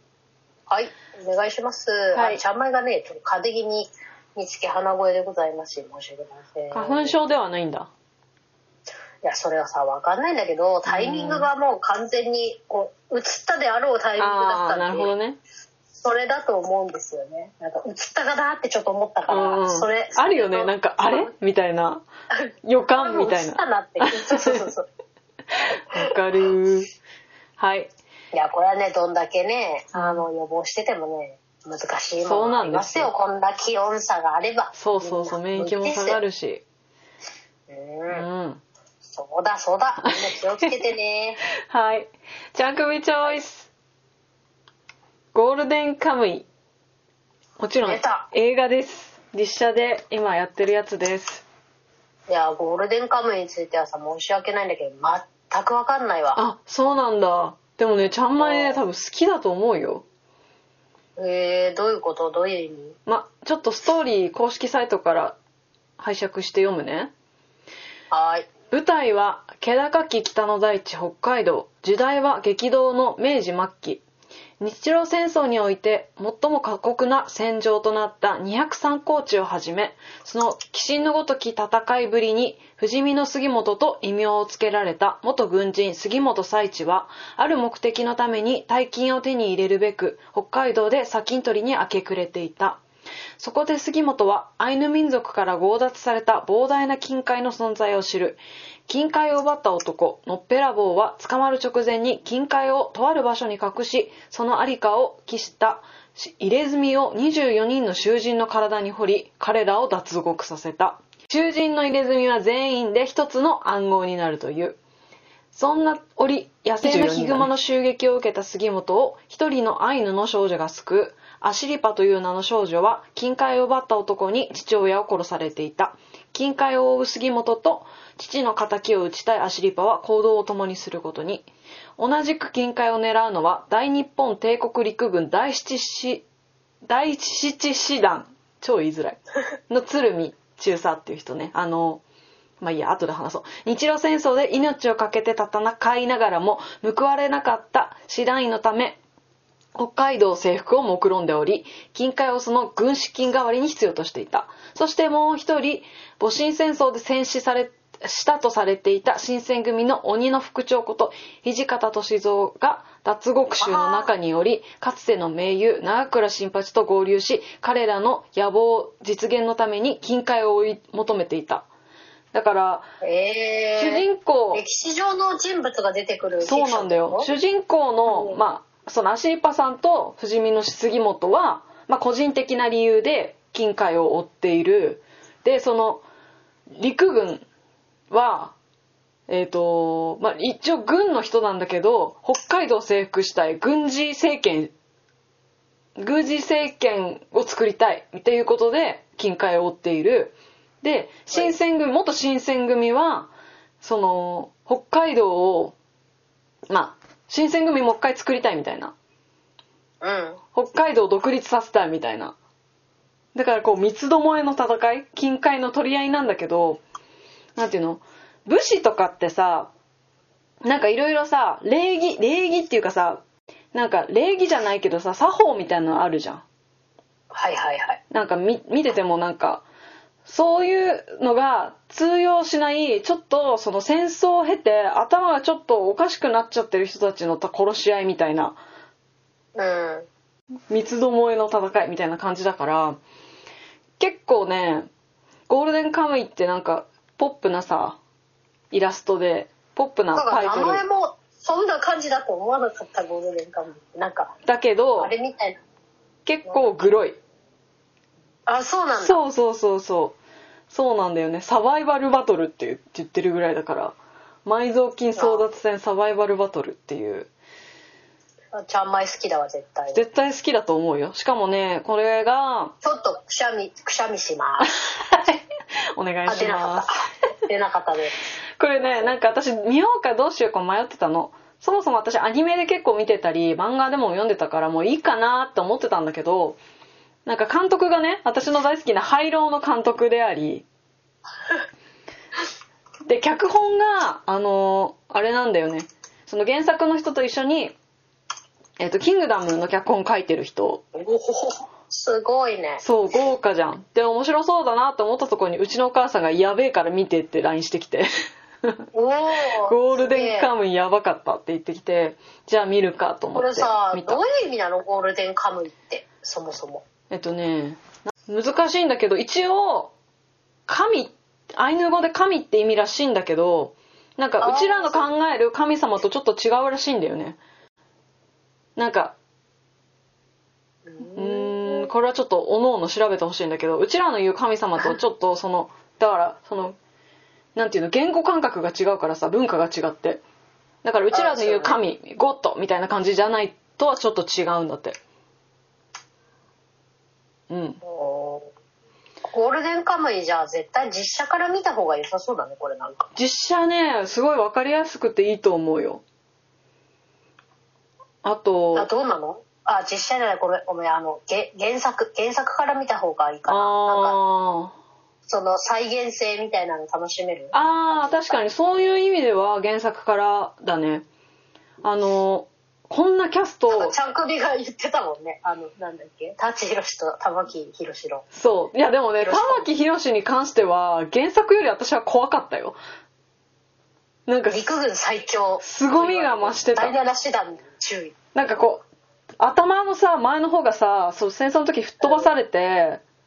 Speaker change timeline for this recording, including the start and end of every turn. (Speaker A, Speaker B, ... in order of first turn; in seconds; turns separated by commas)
Speaker A: 0.7-7.2, Speaker B: 2.1-2.4, Speaker B: 6.7-7.9, Speaker A: 9.2-15.1, Speaker B: 10.8-11.5, Speaker B: 14.2-15.4, Speaker A: 15.9-21.3, Speaker B: 19.3-22.0, Speaker B: 22.6-24.7, Speaker A: 23.0-24.9, Speaker B: 25.6-26.9, Speaker B: 27.6-27.9, Speaker A: 28.3-36.2, Speaker B: 29.9-30.2, Speaker B: 32.2-33.1, Speaker B: 34.7-36.6, Speaker A: 37.7-38.2, Speaker B: 38.1-38.6, Speaker A: 39.1-41.4, Speaker B: 41.7-43.7, Speaker B: 45.3-46.5, Speaker B: 47.6-51.4, Speaker A: 47.8-48.3, Speaker A: 52.3-56.4, Speaker B: 56.4-60.0, Speaker A: 58.4-58.8, Speaker A: 61.2-63.0, Speaker B: 63.1-65.4, Speaker B: 66.0-67.1, Speaker A: 68.1-68.5, Speaker B: 68.7-74.0, Speaker B: 74.6-92.8, Speaker B: 93.4-114.8, Speaker B: 115.5-136.2, Speaker A: 116.8-117.4, Speaker B: 136.8-142.0, Speaker B: 142.6-149.0, Speaker B: 149.7-171.7, Speaker A: 163.6-164.1, Speaker B: 172.3-172.8, Speaker A: 173.0-177.3, Speaker B: 173.8-174.6, Speaker B: 176.4-186.0, Speaker A: 178.1-178.4, Speaker B: 186.7-187.4, Speaker B: 188.1-188.5, Speaker B: 189.3-194.7, Speaker B: 195.9-203.3, Speaker B: 203.8-205.8, Speaker B: 206.7-208.9, Speaker A: 210.0-210.4, Speaker B: 210.5-212.3, Speaker B: 213.3-216.8, Speaker B: 217.6-219.7, Speaker B: 220.6-223.2, Speaker B: 223.7-226.4, Speaker A: 227.3-228.0, Speaker B: 228.1-229.6, Speaker B: 230.2-238.6, Speaker A: 239.5-240.1, Speaker B: 240.7-243.0, Speaker B: 244.0-244.9, Speaker B: 245.5-248.0, Speaker B: 248.7-250.8, Speaker A: 250.1-254.3, Speaker B: 254.4-255.1, Speaker A: 255.0-255.6, Speaker B: 256.2-257.2, Speaker A: 258.5-259.2, Speaker B: 259.0-260.2, Speaker B: 260.7-267.3, Speaker A: 265.1-265.5, Speaker A: 268.5-270.0, Speaker B: 269.9-272.7, Speaker A: 272.8-274.7, Speaker B: 274.6-275.4, Speaker B: 276.0-276.9, Speaker A: 276.3-278.2, Speaker B: 278.6-286.6, Speaker A: 278.8-279.1, Speaker B: 287.2-290.6, Speaker B: 293.1-297.8, Speaker B: 298.8-300.8, Speaker A: 300.9-302.8, Speaker B: 302.8-308.1, Speaker A: 308.9-310.5, Speaker B: 309.6-314.2, Speaker A: 313.3-316.8, Speaker B: 317.1-319.9, Speaker B: 320.7-327.4, Speaker A: 324.4-325.1, Speaker B: 328.8-329.1, Speaker A: 330.9-331.9, Speaker B: 331.1-336.8, Speaker B: 337.6-340.2, Speaker B: 340.8-345.0, Speaker A: 341.1-341.8, Speaker B: 347.5-347.8, Speaker A: 347.8-348.5, Speaker A: 349.3-353.1, Speaker B: 353.1-356.0, Speaker B: 358.2-358.9, Speaker A: 358.7-364.2, Speaker B: 363.5-364.7, Speaker A: 365.3-368.4, Speaker B: 367.5-371.0, Speaker B: 371.8-373.9, Speaker A: 373.7-378.2, Speaker B: 378.3-382.8, Speaker A: 379.2-379.7, Speaker B: 384.3-384.6, Speaker A: 384.5-388.1, Speaker B: 385.6-386.9, Speaker B: 388.3-388.8, Speaker B: 389.4-393.0, Speaker A: 392.0-392.3